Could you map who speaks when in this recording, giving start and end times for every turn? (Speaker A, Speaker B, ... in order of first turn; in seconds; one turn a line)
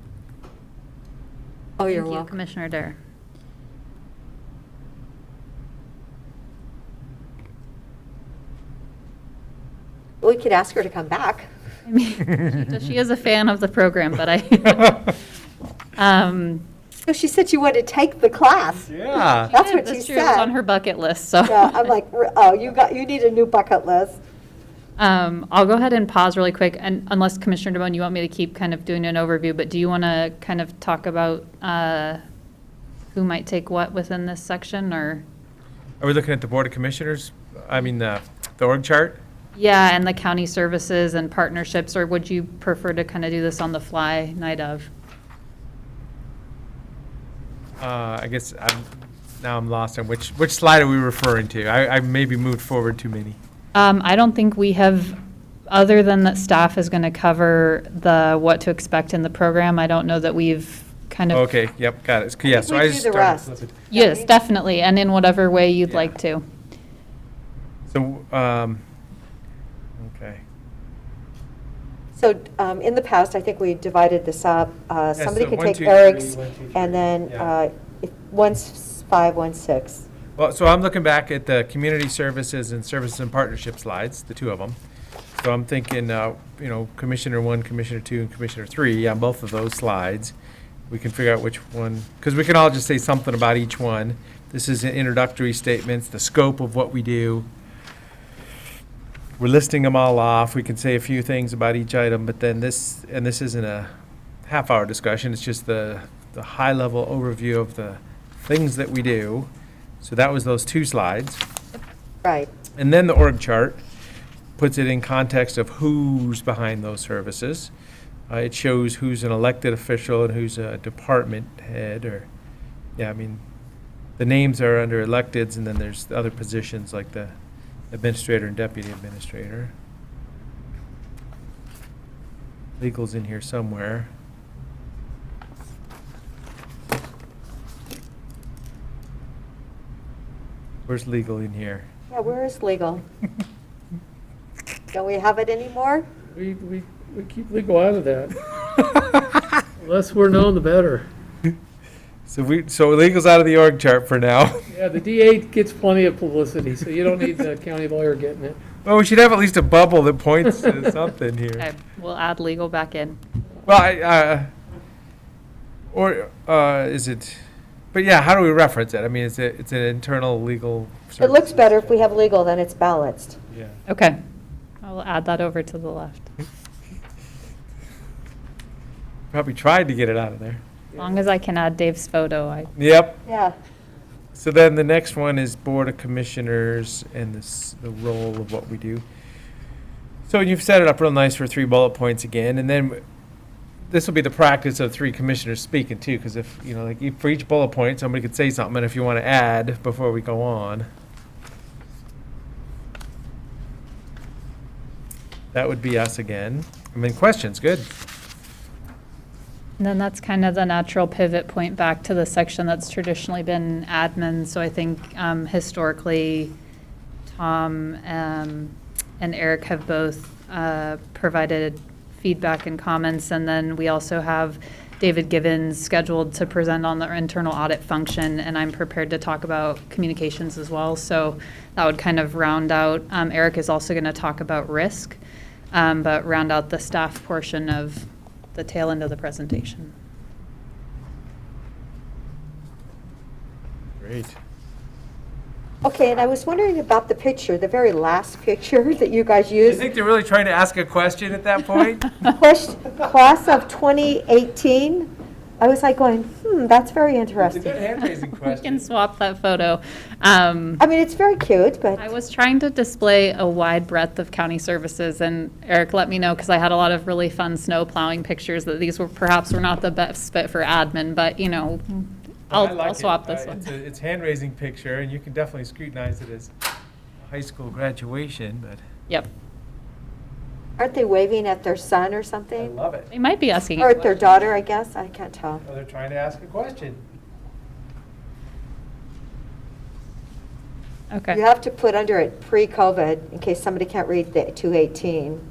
Speaker A: 1.8-2.3
Speaker B: 1.9-3.0
Speaker A: 10.2-11.5
Speaker B: 11.9-15.2
Speaker B: 16.0-16.6
Speaker A: 17.1-18.9
Speaker C: 18.9-19.5
Speaker A: 19.4-20.5
Speaker B: 19.5-21.9
Speaker A: 21.5-24.2
Speaker B: 25.0-32.2
Speaker B: 33.1-35.2
Speaker C: 36.0-39.2
Speaker B: 39.5-44.9
Speaker C: 47.8-53.4
Speaker B: 53.7-55.2
Speaker B: 55.7-61.5
Speaker C: 61.3-63.8
Speaker A: 62.5-64.3
Speaker B: 63.9-66.5
Speaker C: 67.9-68.8
Speaker C: 70.0-70.4
Speaker A: 72.2-80.1
Speaker C: 75.2-77.5
Speaker C: 80.4-84.8
Speaker C: 85.4-90.3
Speaker C: 90.9-97.5
Speaker C: 99.4-103.9
Speaker C: 104.5-109.5
Speaker C: 110.0-111.4
Speaker A: 112.2-112.5
Speaker C: 112.8-113.8
Speaker C: 114.6-117.7
Speaker C: 118.3-122.3
Speaker C: 123.0-123.4
Speaker C: 124.2-127.3
Speaker C: 127.9-129.7
Speaker C: 132.8-134.1
Speaker C: 140.9-141.9
Speaker A: 142.1-143.0
Speaker A: 144.9-146.1
Speaker D: 146.3-148.4
Speaker D: 149.8-151.1
Speaker C: 152.3-154.6
Speaker D: 154.7-158.6
Speaker C: 158.8-161.7
Speaker B: 161.6-163.2
Speaker C: 163.7-164.5
Speaker C: 165.9-167.4
Speaker C: 167.9-172.1
Speaker A: 171.2-173.4
Speaker C: 173.5-173.8
Speaker B: 173.9-174.2
Speaker B: 174.8-176.3
Speaker C: 179.3-180.6
Speaker B: 181.0-182.7
Speaker C: 182.8-183.2
Speaker A: 183.3-183.6
Speaker C: 184.3-189.0
Speaker C: 190.3-193.0
Speaker C: 193.9-200.9
Speaker C: 205.5-207.9
Speaker B: 209.8-216.5
Speaker B: 217.3-235.2
Speaker B: 235.7-239.9
Speaker C: 244.0-244.4
Speaker A: 245.8-249.8
Speaker C: 249.6-252.2
Speaker A: 252.2-255.1
Speaker A: 255.6-257.8
Speaker C: 257.4-258.9
Speaker B: 258.2-260.8
Speaker A: 260.8-262.1
Speaker B: 262.0-273.7
Speaker C: 272.5-276.5
Speaker C: 277.2-278.8
Speaker A: 280.8-282.7
Speaker C: 282.6-283.1
Speaker B: 283.1-283.9
Speaker A: 283.8-285.6
Speaker C: 284.1-284.5
Speaker C: 285.6-287.0
Speaker B: 291.1-291.4
Speaker A: 291.3-295.4